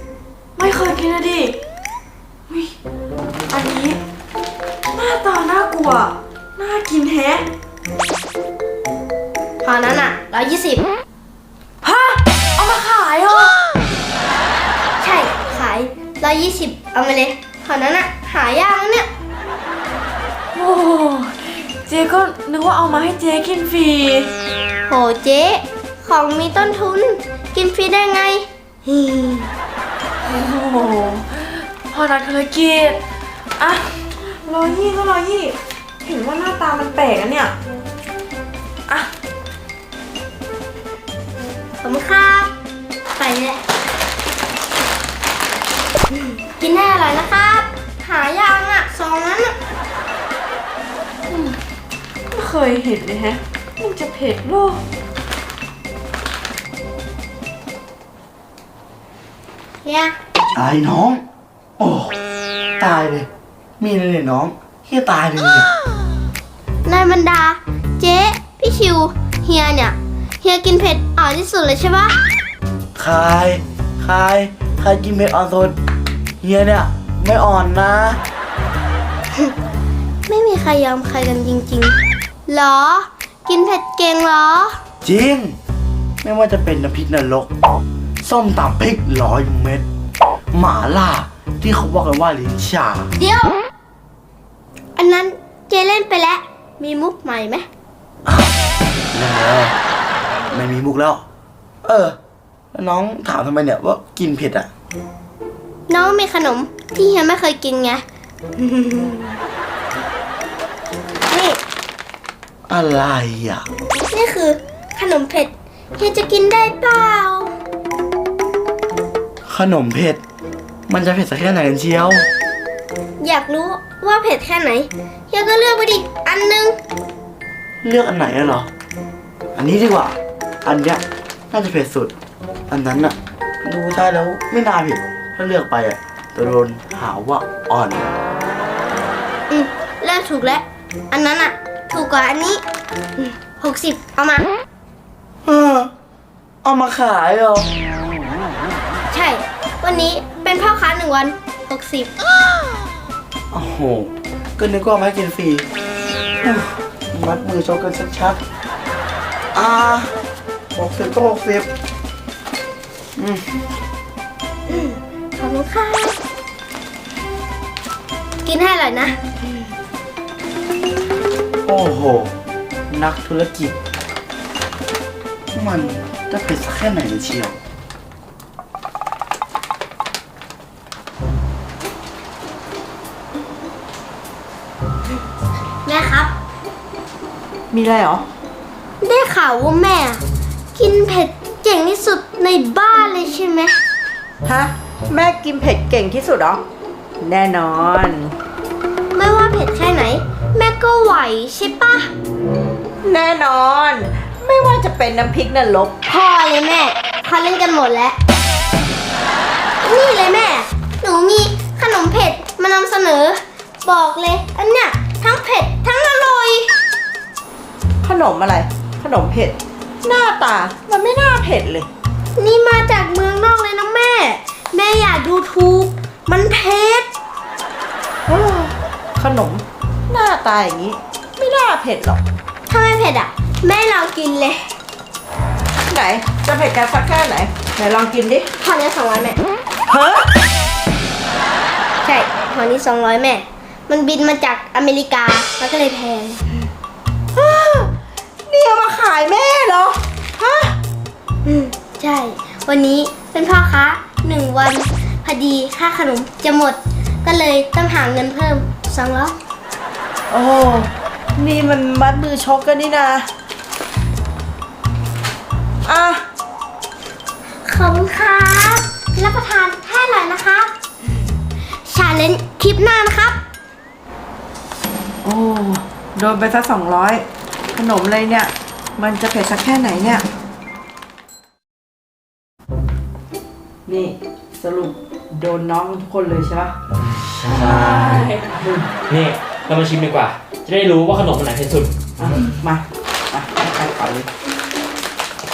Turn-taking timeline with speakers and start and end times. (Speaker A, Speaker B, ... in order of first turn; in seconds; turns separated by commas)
Speaker A: 0.6-1.6, Speaker A: 2.5-2.7, Speaker A: 3.5-4.0, Speaker A: 4.9-7.5, Speaker B: 9.6-10.9, Speaker A: 11.8-13.6, Speaker B: 15.0-19.1, Speaker A: 20.6-24.3, Speaker B: 24.9-29.5, Speaker A: 30.2-33.0, Speaker A: 33.6-37.5, Speaker B: 41.8-42.5, Speaker B: 43.2-43.6, Speaker B: 46.6-49.5, Speaker A: 51.3-51.6, Speaker A: 52.3-54.8, Speaker B: 59.8-60.2, Speaker C: 60.5-61.2, Speaker C: 61.8-62.2, Speaker C: 62.8-63.3, Speaker C: 63.8-65.7, Speaker B: 66.9-72.2, Speaker C: 73.0-75.8, Speaker C: 76.4-78.2, Speaker B: 80.3-82.0, Speaker B: 82.5-84.8, Speaker C: 85.0-85.6, Speaker C: 86.2-87.5, Speaker C: 88.2-89.8, Speaker C: 90.5-93.1, Speaker B: 93.2-93.6, Speaker B: 95.0-97.7, Speaker C: 98.2-98.5, Speaker C: 99.1-99.8, Speaker C: 100.5-101.2, Speaker C: 101.8-102.2, Speaker C: 102.7-104.7, Speaker B: 105.9-108.0, Speaker B: 108.6-109.4, Speaker B: 111.3-111.6, Speaker C: 112.7-113.7, Speaker B: 114.1-117.5, Speaker C: 119.5-120.2, Speaker C: 120.9-122.3, Speaker B: 123.2-126.8, Speaker C: 127.8-128.7, Speaker C: 129.6-132.2, Speaker C: 132.7-138.1, Speaker B: 139.5-142.6, Speaker B: 143.2-144.5, Speaker C: 145.4-145.9, Speaker C: 146.6-147.8, Speaker B: 149.1-152.1, Speaker C: 153.5-155.7, Speaker C: 156.4-158.4, Speaker C: 159.5-160.1, Speaker C: 160.8-161.7, Speaker C: 163.2-163.5, Speaker B: 164.7-166.2, Speaker B: 168.4-169.2, Speaker C: 171.7-172.3, Speaker C: 172.9-173.8, Speaker C: 175.5-177.6, Speaker B: 185.8-186.3, Speaker D: 187.7-188.2, Speaker B: 189.0-190.2, Speaker B: 190.8-193.8, Speaker D: 194.4-196.6, Speaker D: 197.2-198.3, Speaker B: 199.1-202.1, Speaker D: 203.0-206.0, Speaker B: 206.1-208.2, Speaker B: 209.8-216.7, Speaker D: 218.0-221.9, Speaker B: 222.4-227.1, Speaker D: 228.3-232.2, Speaker B: 232.7-234.7, Speaker D: 235.9-238.5, Speaker B: 238.6-239.4, Speaker D: 239.9-240.3, Speaker B: 242.0-246.4, Speaker D: 247.3-247.9, Speaker D: 248.5-250.8, Speaker B: 251.4-259.4, Speaker D: 260.3-263.3, Speaker D: 265.9-266.2, Speaker B: 267.6-270.7, Speaker B: 271.9-273.4, Speaker D: 275.2-280.2, Speaker D: 283.9-286.8, Speaker C: 287.4-288.3, Speaker E: 287.5-291.9, Speaker D: 287.8-288.3, Speaker D: 292.2-294.3